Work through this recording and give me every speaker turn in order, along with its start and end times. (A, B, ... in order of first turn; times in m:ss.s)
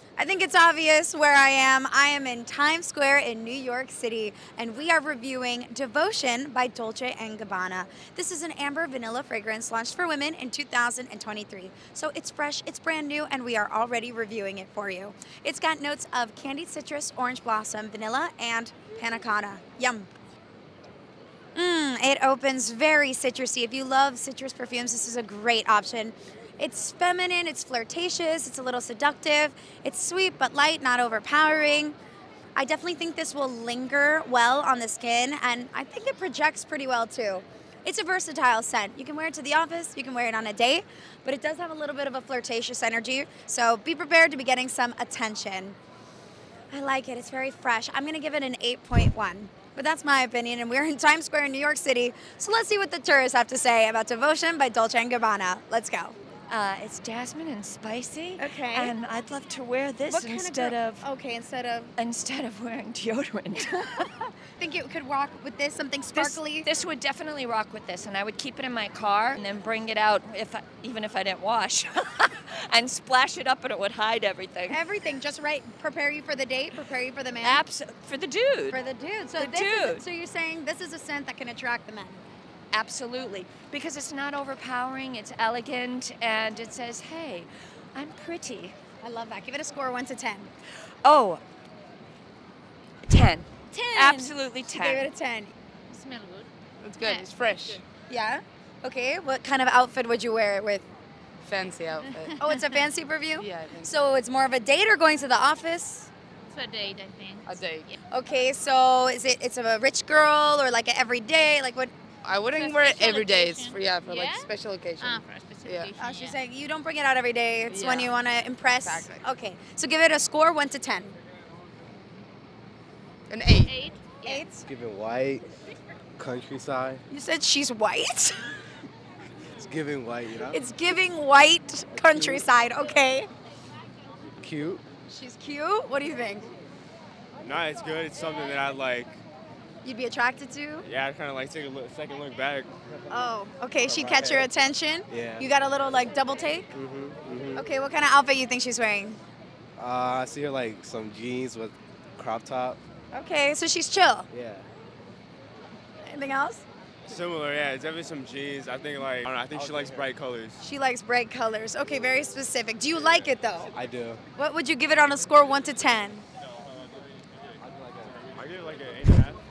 0:00.2-0:20.1 A
0:21.6-0:32.0 A
0:32.6-0:45.8 A
0:46.7-0:56.2 A
0:56.5-1:01.1 B
0:58.4-0:58.9 A
1:00.1-1:01.9 A
1:02.0-1:03.8 B
1:03.6-1:06.7 A
1:06.1-1:14.8 B
1:14.7-1:17.6 A
1:17.4-1:18.8 B
1:18.7-1:22.2 A
1:19.4-1:20.0 B
1:22.7-1:28.8 B
1:29.0-1:30.5 A
1:31.0-1:31.4 B
1:33.1-1:35.1 B
1:33.7-1:35.6 A
1:35.9-1:36.5 C
1:36.8-1:37.8 D
1:37.0-1:37.8 C
1:38.1-1:40.8 A
1:41.4-1:42.4 D
1:42.4-1:46.1 A
1:43.3-1:44.0 D
1:46.5-1:47.6 C
1:47.4-1:48.0 D
1:48.1-1:51.9 A
1:52.2-1:56.0 D
1:52.5-1:56.4 C
1:56.0-2:01.2 A
1:57.7-1:58.2 D
1:58.7-1:59.2 D
2:03.3-2:03.8 D
2:03.6-2:04.5 C
2:04.2-2:04.6 A
2:04.6-2:05.5 E
2:06.2-2:07.0 E
2:07.1-2:08.6 A
2:09.5-2:10.6 E
2:10.5-2:13.3 A
2:12.0-2:12.4 E
2:14.4-2:14.8 E
2:15.1-2:16.5 A
2:17.4-2:19.2 F
2:19.8-2:20.9 A
2:20.8-2:22.8 F
2:23.1-2:26.7 A
2:23.9-2:24.5 E
2:25.1-2:25.5 E
2:26.7-2:27.6 E
2:27.6-2:29.2 A
2:29.8-2:32.8 E
2:33.1-2:34.3 A
2:34.3-2:34.6 E
2:36.0-2:36.6 A
2:37.1-2:40.6 F
2:39.5-2:40.1 E
2:40.6-2:43.8 A
2:43.7-2:44.2 E
2:44.4-2:46.2 A
2:47.6-2:48.1 E
2:48.1-2:49.4 F